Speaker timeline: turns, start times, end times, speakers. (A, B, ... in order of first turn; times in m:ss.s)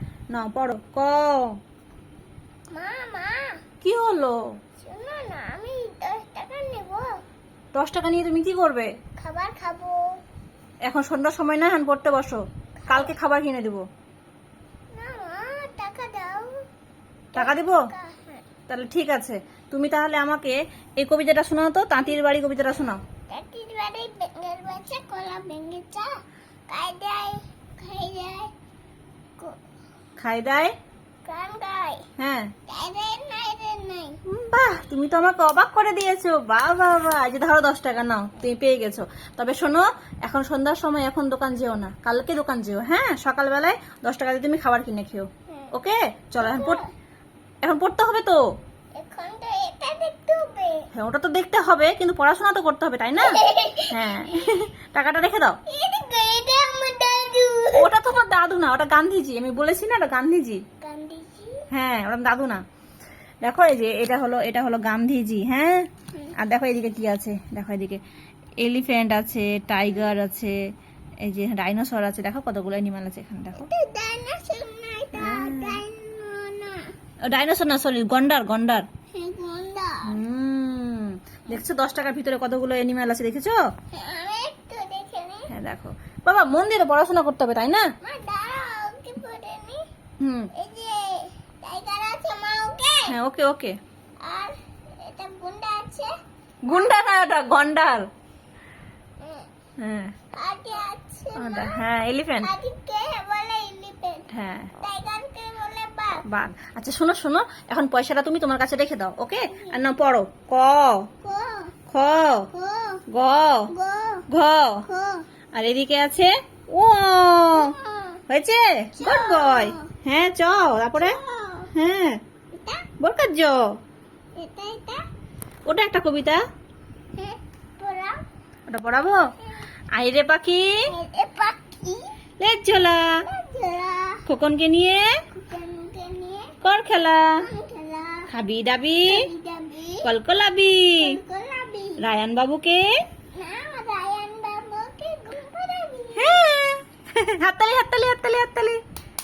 0:00.3-0:01.5 A
0:02.7-0:03.5 B
0:03.8-0:04.4 A
0:04.8-0:07.1 B
0:07.7-0:08.9 A
0:09.2-0:10.0 B
0:10.8-0:13.8 A
0:12.8-0:13.1 B
0:14.9-0:16.5 B
0:17.3-0:18.4 B
0:17.4-0:17.9 A
0:18.7-0:23.0 A
0:23.3-0:26.1 B
0:26.7-0:28.5 B
0:30.2-0:30.7 A
0:31.2-0:32.0 B
0:32.2-0:32.5 A
0:32.7-0:34.2 B
0:34.3-0:46.8 A
0:46.4-0:46.9 B
0:47.6-0:48.4 A
0:49.0-0:50.9 B
0:50.9-0:53.3 A
0:53.2-0:54.4 B
0:53.9-0:55.6 A
0:55.7-0:57.9 B
0:57.8-1:00.6 A
1:00.8-1:01.6 B
1:01.7-1:02.6 A
1:03.4-1:08.0 A
1:08.6-1:10.6 A
1:11.2-1:13.7 A
1:13.5-1:16.9 B
1:15.1-1:15.8 A
1:17.2-1:18.9 A
1:19.1-1:20.1 B
1:20.0-1:23.6 A
1:23.9-1:25.5 B
1:25.5-1:27.9 A
1:28.0-1:29.8 B
1:30.2-1:30.5 A
1:30.5-1:33.1 B
1:33.1-1:33.8 A
1:34.2-1:36.1 B
1:36.6-1:38.1 A
1:39.2-1:39.5 B
1:39.8-1:40.1 A
1:40.3-1:41.8 B
1:41.4-1:42.5 A
1:42.4-1:44.3 B
1:44.3-1:44.7 A
1:44.8-1:46.2 B
1:46.2-1:51.1 A
1:49.5-1:49.8 B
1:51.2-1:51.7 B
1:51.9-1:52.5 A
1:52.5-1:53.0 B
1:53.1-1:53.7 A
1:53.7-1:54.2 B
1:54.3-1:54.8 A
1:54.9-1:55.2 B
1:55.5-1:57.7 A
1:57.5-1:58.2 B
1:58.3-2:01.2 A
1:59.0-1:59.9 B
2:01.0-2:01.7 B
2:01.7-2:02.2 A
2:02.5-2:02.9 B
2:03.0-2:03.6 A
2:04.4-2:05.0 B
2:05.7-2:06.4 A
2:07.1-2:08.2 B
2:08.7-2:09.2 A
2:09.9-2:10.8 A
2:10.9-2:12.1 B
2:12.4-2:13.2 A
2:13.1-2:14.2 B
2:14.2-2:15.2 A
2:15.3-2:16.5 B
2:16.6-2:17.5 A
2:17.4-2:18.3 B
2:18.3-2:19.3 A
2:19.0-2:20.1 B
2:20.0-2:21.2 A
2:21.0-2:22.0 B
2:22.0-2:23.0 A
2:23.3-2:26.5 B
2:26.2-2:28.8 A